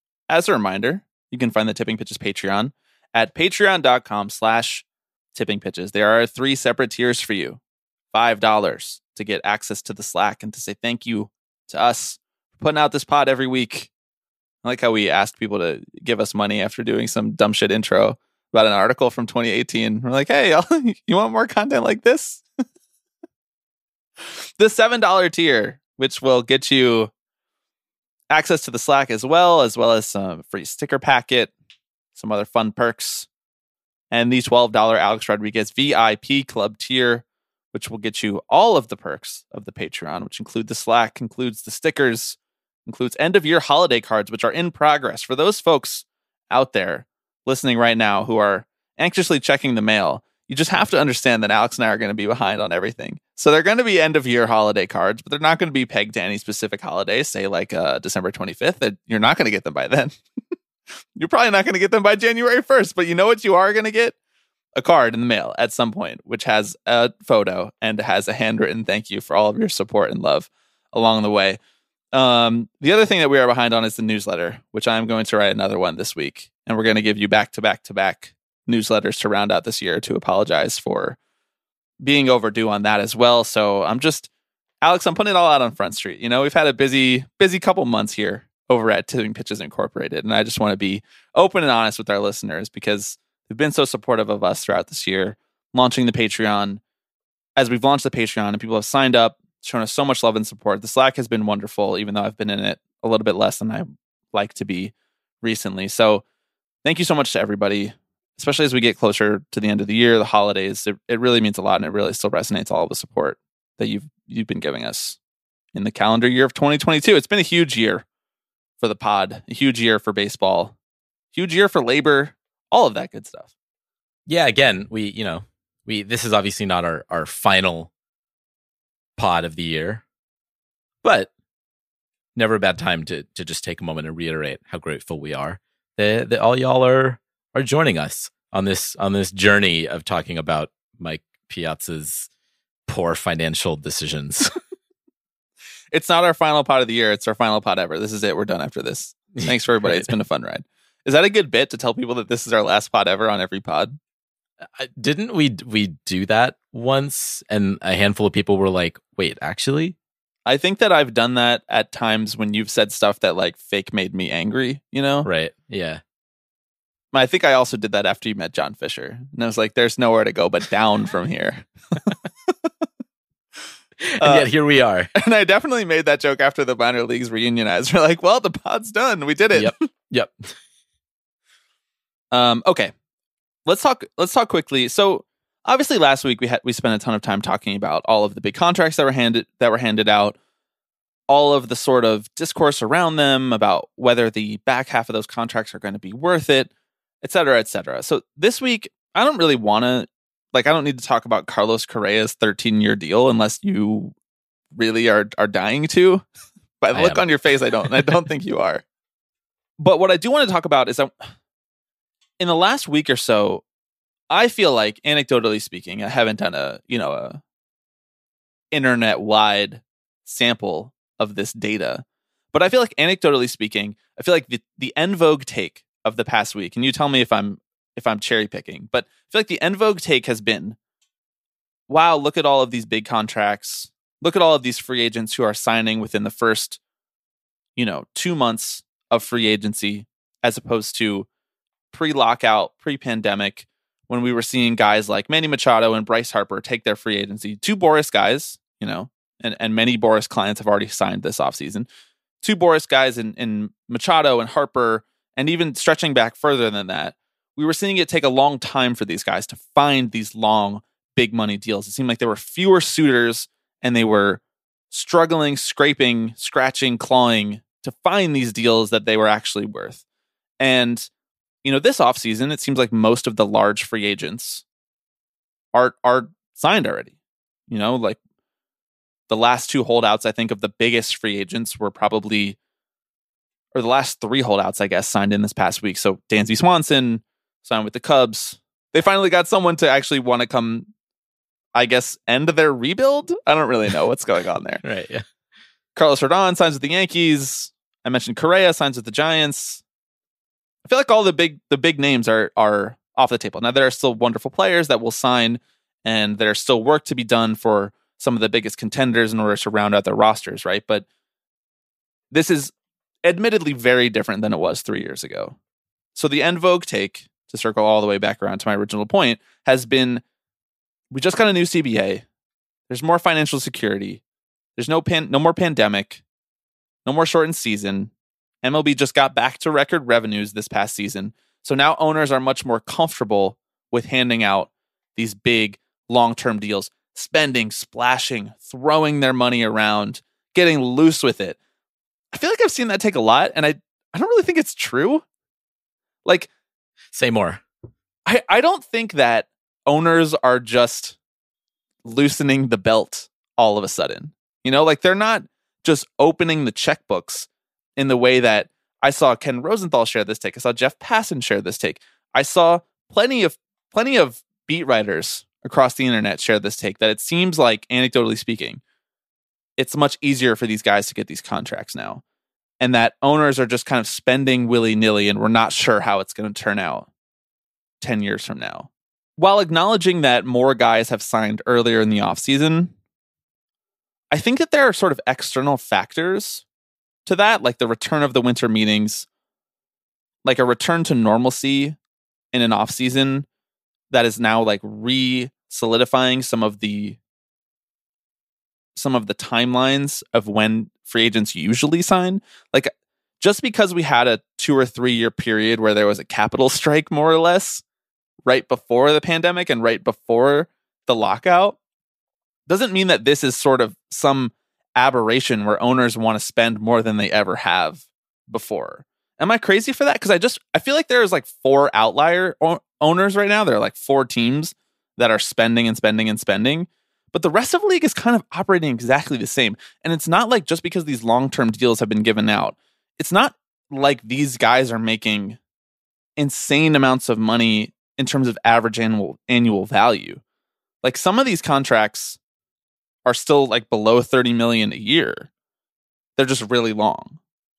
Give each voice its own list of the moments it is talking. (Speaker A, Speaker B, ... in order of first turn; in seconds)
Speaker A: 0.3-7.6, 8.1-13.9, 14.6-22.4, 24.2-27.1, 28.3-31.5, 32.1-33.3, 34.1-60.2, 61.1-64.1, 64.8-71.6, 72.1-81.2, 82.0-84.3, 84.8-96.8, 97.6-106.2, 106.8-115.2, 115.7-118.0, 118.8-120.7, 121.3-123.5, 145.9-154.0, 160.4-165.3, 167.1-172.5, 174.2-174.5, 175.2-179.8, 182.3-182.9, 183.7-190.4, 191.3-196.7, 197.2-204.1, 204.8-206.2, 206.8-208.8, 209.8-211.2, 212.4-213.6, 214.3-217.4, 218.7-230.8, 231.9-236.8, 237.8-241.3, 241.9-251.9, 252.4-270.0, 270.6-271.1, 271.6-274.6, 275.7-277.1, 277.7-278.2, 279.3-282.6, 283.7-290.9, 291.7-294.8, 295.9-299.8, 300.9-311.1, 312.3-312.7, 313.2-315.6, 316.1-320.2, 321.1-322.2, 322.9-324.2, 324.8-326.2, 327.0-328.1, 328.6-341.6, 342.3-345.2, 348.2-351.2, 352.0-368.8, 369.8-372.2, 372.8-377.1, 378.0-382.9, 384.3-386.6, 387.2-389.2, 390.4-391.9, 392.5-393.4, 394.1-397.2, 398.9-407.8, 408.4-411.8, 412.7-435.6, 436.4-440.4, 441.0-442.4, 443.2-445.5, 446.4-447.4
Speaker B: 124.3-127.9, 129.2-130.0, 131.0-131.3, 132.3-142.3, 142.9-144.5, 149.4-150.1, 154.8-159.9, 165.2-166.0, 174.0-175.1, 179.5-180.6, 206.9-207.2, 294.8-295.2, 347.1-347.6